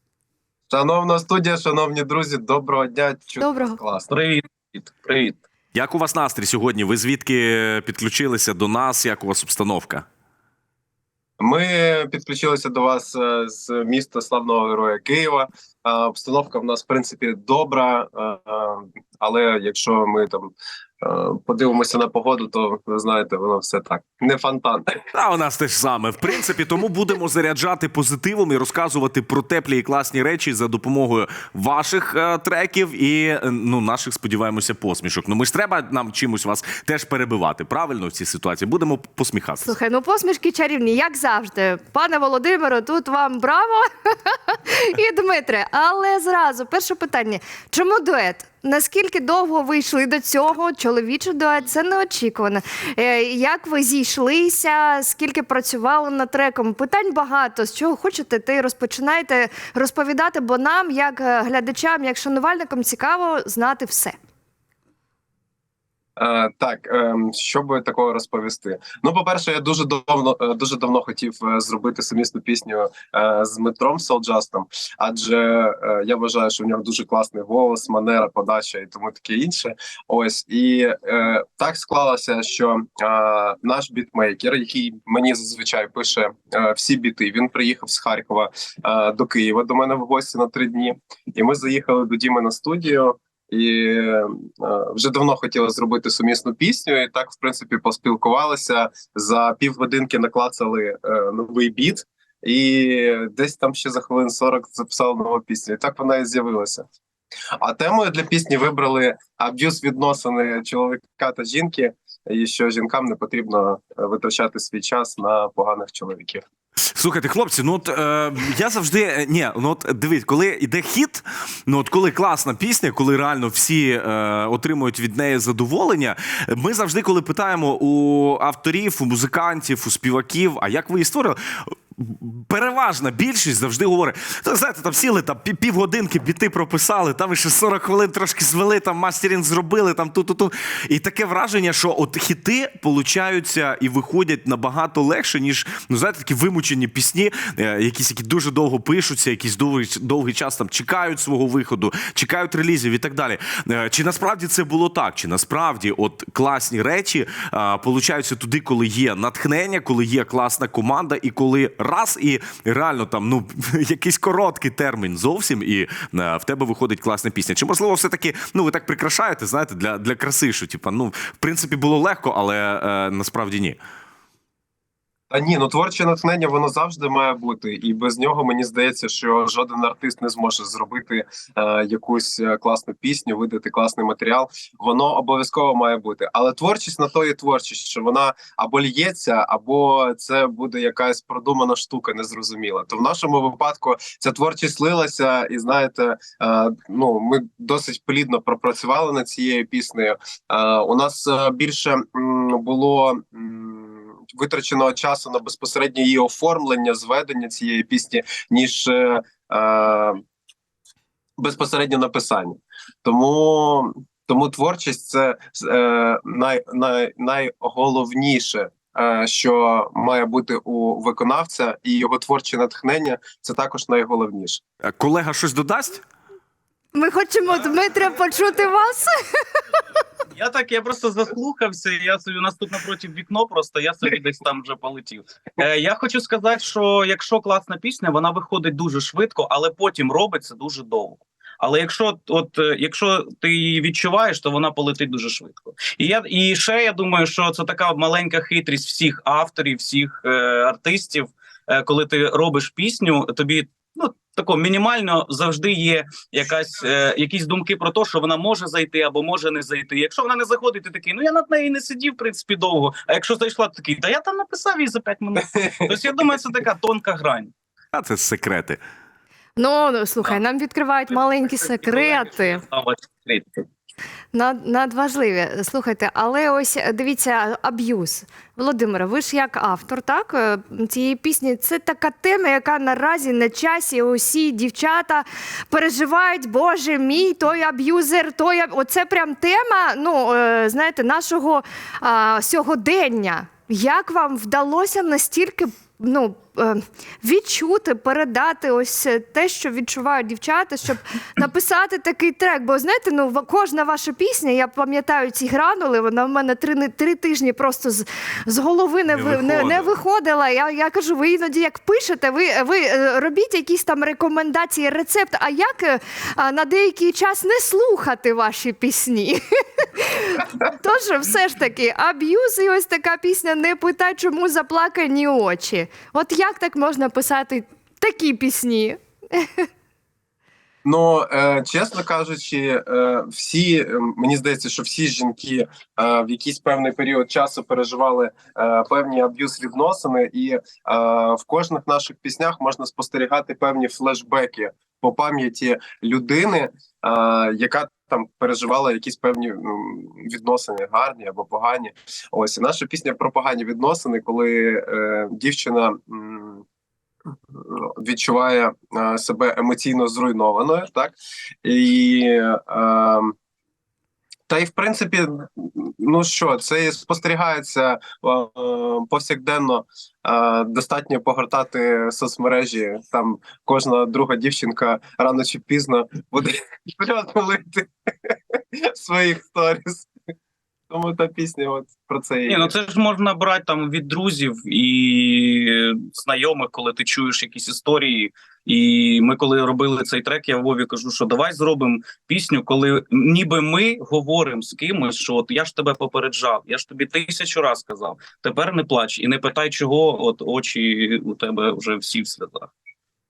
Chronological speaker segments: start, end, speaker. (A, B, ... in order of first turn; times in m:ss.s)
0:00.7-0:04.1 A
0:03.4-0:03.8 B
0:04.1-0:05.4 C
0:05.7-0:10.0 D
0:11.4-0:25.0 A
0:25.1-0:39.7 D
0:39.6-1:04.2 B
1:06.2-1:46.8 A
1:47.6-1:56.4 A
1:56.9-2:53.8 D
2:55.3-3:30.2 A
3:31.4-3:44.6 A
3:44.8-3:46.0 D
3:46.9-3:49.6 B
3:50.3-4:27.5 C
4:25.4-4:26.0 A
4:27.9-4:28.8 D
4:29.6-4:32.6 B
4:31.1-4:33.6 C
4:34.3-5:29.6 B
5:09.1-5:09.9 D
5:30.8-5:56.6 A
5:57.5-6:03.3 A
6:04.5-6:20.1 A
6:20.9-6:22.7 A
6:22.5-6:42.7 C